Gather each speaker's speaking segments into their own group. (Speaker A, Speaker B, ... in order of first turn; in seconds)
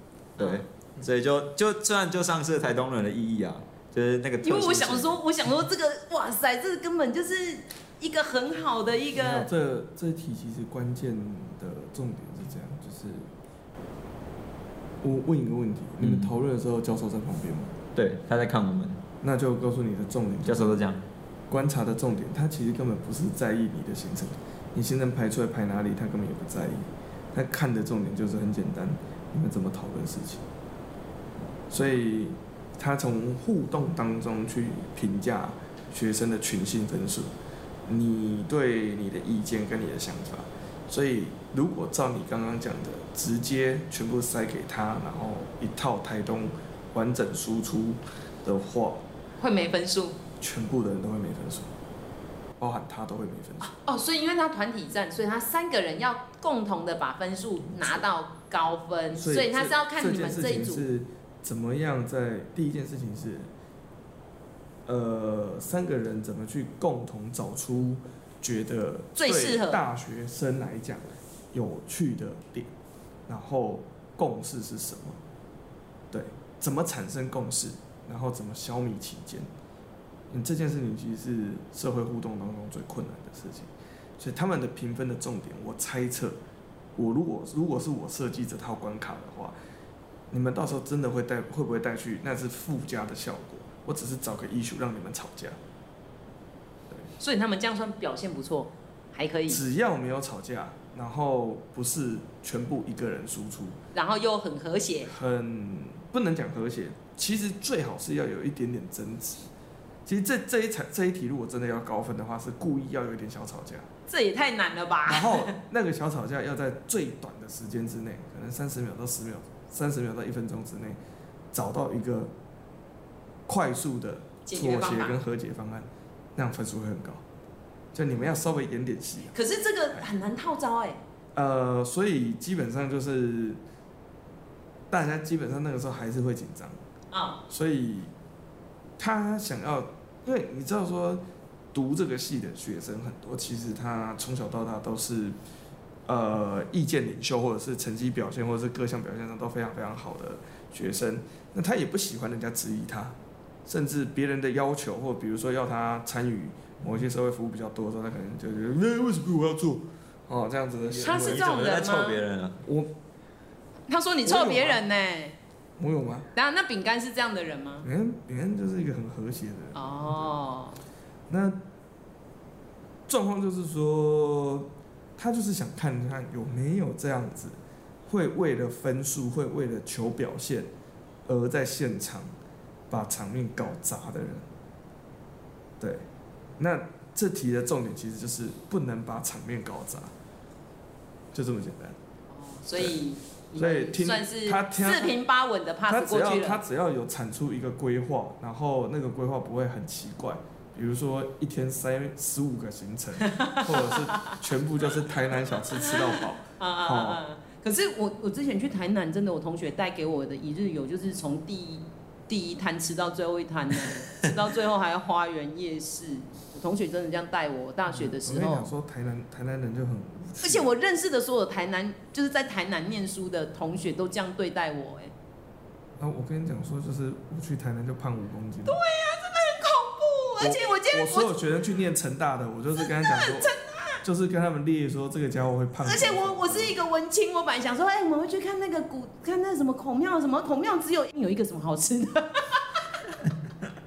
Speaker A: 0.4-5.2, 16.0-16.3, 17.9-19.0, 20.4-21.0, 161.0-162.6
Speaker B: 0.4-0.6, 4.4-9.5, 49.4-50.2, 53.6-60.8, 69.2-69.8, 97.2-99.6, 103.9-105.1, 114.1-115.6, 124.5-125.2, 129.3-131.0, 137.1-137.4, 161.0-162.2, 163.9-165.4, 166.3-167.9, 169.7-170.8, 192.3-196.6, 203.2-204.4, 205.7-218.7, 220.4-225.1, 228.7-231.3, 232.8-234.0, 235.8-242.6
Speaker C: 9.1-13.3, 15.0-17.7, 19.2-20.8, 21.5-30.5, 31.7-37.3, 37.9-49.0, 50.4-51.7, 52.6-53.7, 59.1-63.5, 64.9-72.7, 73.3-75.2, 76.1-79.5, 80.3-86.4, 87.0-89.6, 90.3-95.6, 99.5-103.8, 105.1-109.5, 110.0-113.9, 115.1-121.0, 121.5-122.3, 123.5-127.2, 127.9-129.3, 131.3-133.6, 134.9-136.8, 137.5-138.1, 139.0-141.2, 141.7-145.4, 146.1-161.5, 162.6-162.9, 164.2-164.8, 165.8-166.3, 167.8-170.3, 171.3-171.6, 173.1-180.7, 181.3-182.3, 182.9-184.5, 185.8-186.1, 186.6-190.1, 191.3-192.0, 193.6-195.2, 195.9-207.2, 217.9-220.7, 226.0-228.8, 230.4-233.5, 234.0-236.8